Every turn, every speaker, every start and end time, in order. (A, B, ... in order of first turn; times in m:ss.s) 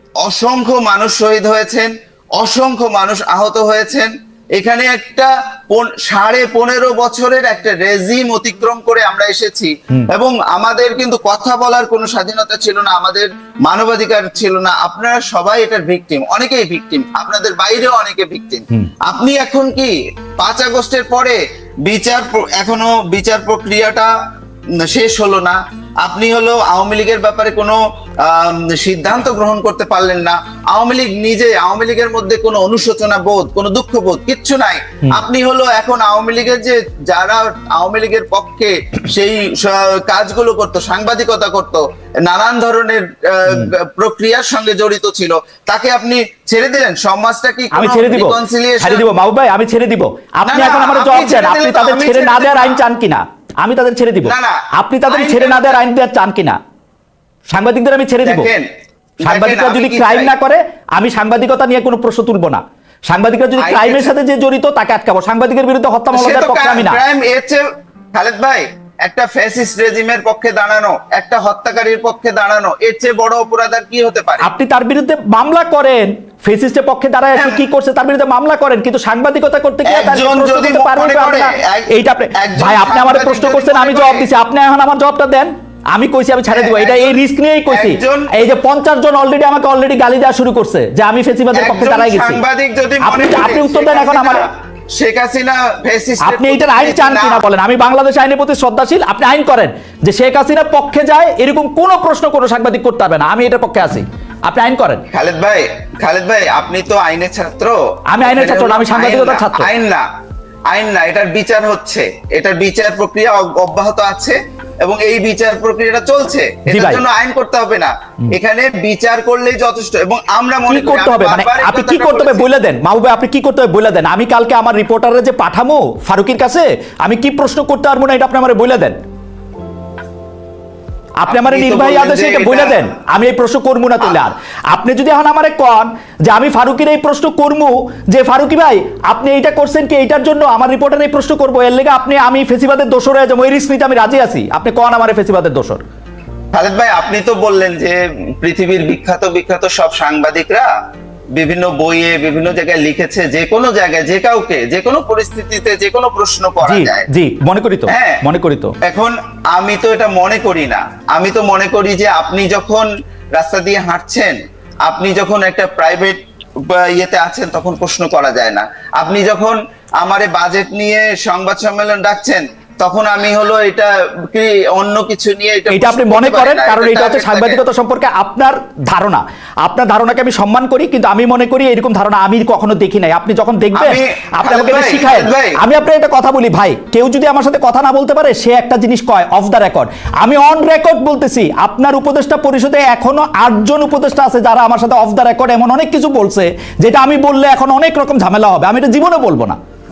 0:00.2-0:24.1 A
0:24.8-0:49.1 A
0:47.7-0:56.6 B
0:50.5-0:52.8 A
0:54.2-0:55.8 A
0:57.5-0:58.5 B
0:58.2-0:58.6 A
0:59.2-1:07.0 B
0:59.2-1:00.3 A
1:03.6-1:04.1 A
1:06.1-1:14.5 A
1:14.4-1:32.4 B
1:17.4-1:17.6 A
1:19.8-1:24.3 A
1:26.5-1:28.3 A
1:31.5-1:37.4 A
1:33.0-1:34.4 B
1:36.2-1:45.0 B
1:45.1-1:50.0 A
1:48.1-1:49.7 B
1:50.7-2:02.5 A
1:56.7-1:57.0 B
2:00.7-2:09.0 B
2:11.2-2:25.8 B
2:11.3-2:12.9 A
2:26.5-2:30.7 A
2:31.4-2:37.1 A
2:36.6-2:38.7 B
2:37.9-2:38.2 A
2:38.8-2:57.6 A
2:55.7-3:19.6 B
3:03.7-3:05.6 A